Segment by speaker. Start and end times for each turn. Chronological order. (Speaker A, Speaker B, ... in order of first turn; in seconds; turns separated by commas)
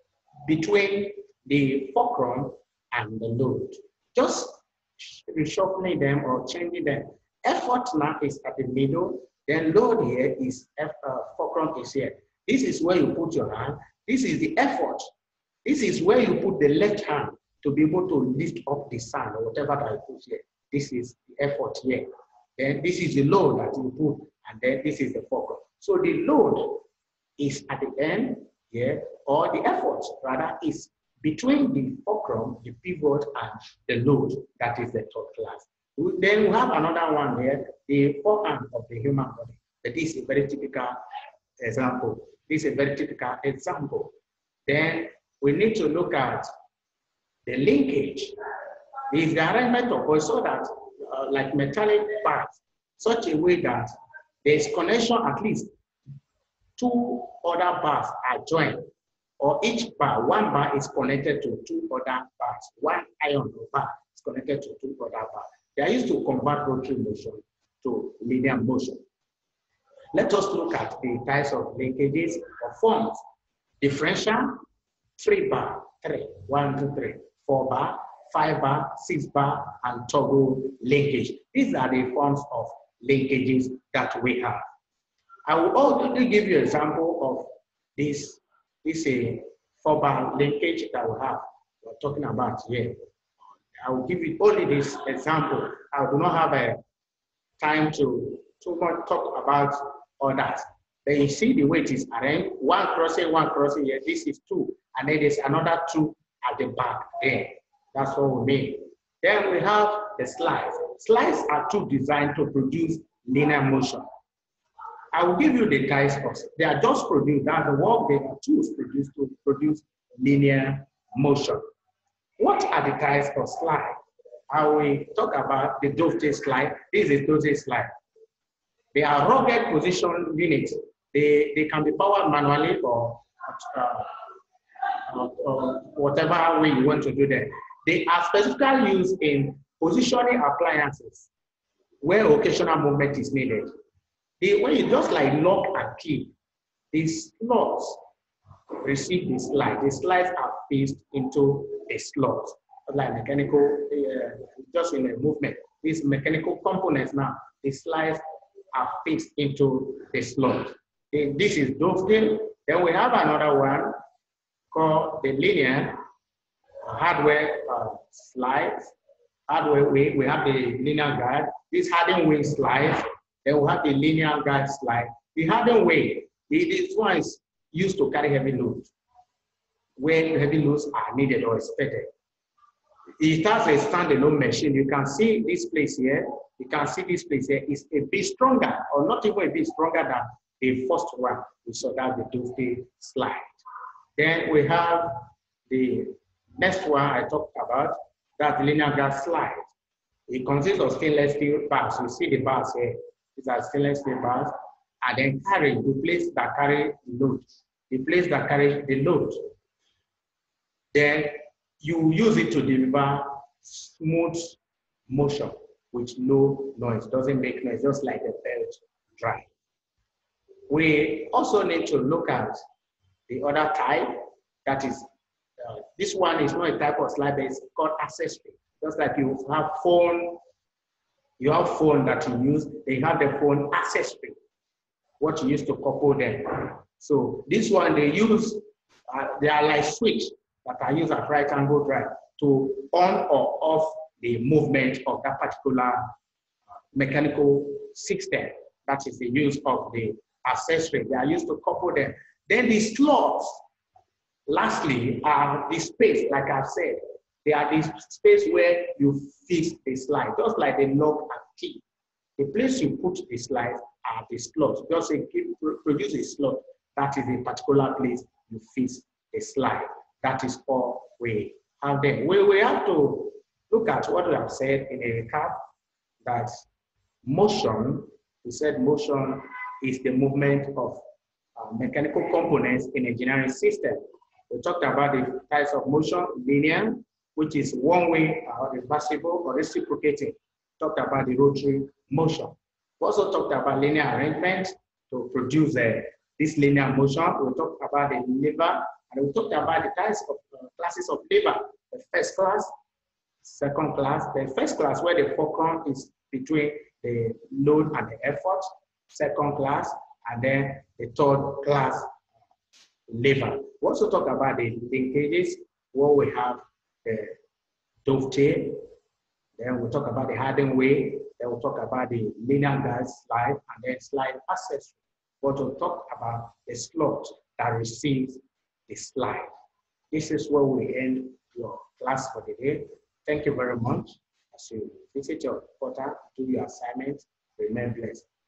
Speaker A: 0.5-15.1, Speaker A: 15.6-22.0, Speaker A: 22.6-26.8, Speaker A: 27.4-40.9, Speaker A: 41.6-44.1, Speaker A: 44.7-46.5, Speaker A: 47.5-48.3, Speaker A: 49.1-53.9, Speaker A: 54.4-55.7, Speaker A: 56.8-58.9, Speaker A: 59.4-69.0, Speaker A: 70.1-73.2, Speaker A: 73.8-74.6, Speaker A: 75.2-84.6, Speaker A: 85.5-87.5, Speaker A: 88.0-93.0, Speaker A: 93.8-96.8, Speaker A: 97.6-114.0, Speaker A: 115.1-121.6, Speaker A: 122.4-124.0, Speaker A: 124.5-127.9, Speaker A: 128.9-134.1, Speaker A: 135.1-141.3, Speaker A: 142.0-143.7, Speaker A: 144.4-146.3, Speaker A: 146.9-148.0, Speaker A: 148.8-158.2, Speaker A: 158.7-163.9, Speaker A: 164.7-166.0, Speaker A: 166.8-168.9, Speaker A: 169.5-178.9, Speaker A: 180.0-182.1, Speaker A: 183.2-193.6, Speaker A: 194.2-199.7, Speaker A: 200.3-209.4, Speaker A: 210.9-219.5, Speaker A: 220.7-222.6, Speaker A: 223.3-225.1, Speaker A: 225.6-230.4, Speaker A: 231.4-234.3, Speaker A: 235.2-246.1, Speaker A: 246.9-253.6, Speaker A: 254.5-261.8, Speaker A: 262.4-275.6, Speaker A: 276.2-276.6, Speaker A: 277.2-281.0, Speaker A: 281.6-284.0, Speaker A: 284.5-302.7, Speaker A: 303.4-312.1, Speaker A: 313.1-317.4, Speaker A: 318.0-318.8, Speaker A: 319.6-329.5, Speaker A: 330.1-338.3